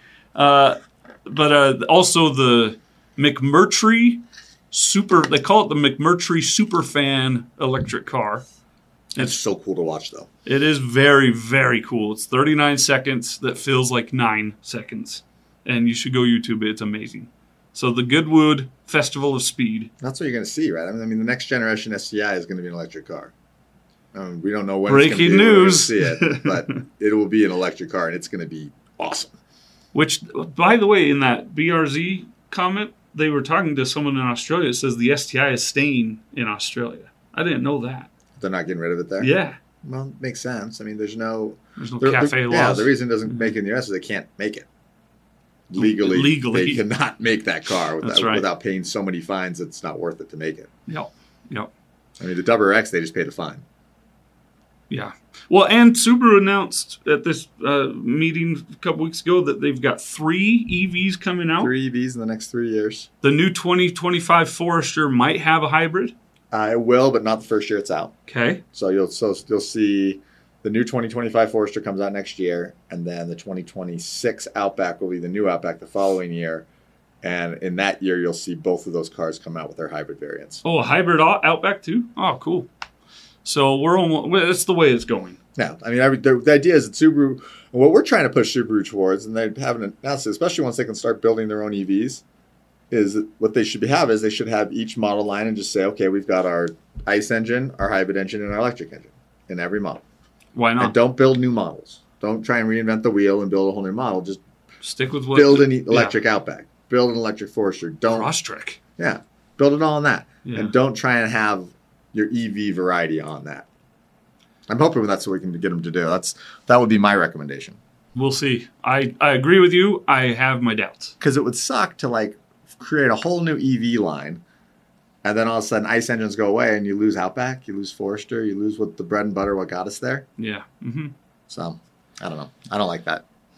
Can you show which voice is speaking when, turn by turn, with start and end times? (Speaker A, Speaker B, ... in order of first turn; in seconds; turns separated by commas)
Speaker A: 0.3-8.4, Speaker B: 9.1-10.3, Speaker A: 10.4-19.9, Speaker B: 20.0-23.3, Speaker B: 24.1-29.3, Speaker A: 24.9-26.6, Speaker A: 29.9-38.1, Speaker B: 38.4-39.3, Speaker A: 39.2-39.6, Speaker B: 39.8-44.7, Speaker A: 41.8-43.5, Speaker B: 45.7-50.7, Speaker A: 45.8-46.8, Speaker A: 48.0-48.5, Speaker A: 50.9-51.7, Speaker B: 52.2-53.6, Speaker A: 54.9-61.7, Speaker B: 61.6-63.1, Speaker A: 63.2-66.1, Speaker B: 66.5-68.1, Speaker A: 68.3-68.6, Speaker B: 68.7-76.7, Speaker B: 77.2-80.6, Speaker A: 80.6-82.7, Speaker A: 83.4-85.4, Speaker B: 85.5-92.2, Speaker B: 92.9-100.0, Speaker A: 100.5-101.0, Speaker B: 100.8-104.4, Speaker A: 104.8-106.2, Speaker B: 105.3-108.3, Speaker A: 108.1-108.8, Speaker B: 109.0-113.7, Speaker A: 110.4-110.7, Speaker B: 114.7-117.8, Speaker A: 118.1-121.1, Speaker B: 121.2-124.4, Speaker B: 125.2-130.2, Speaker A: 130.4-131.1, Speaker B: 131.5-133.2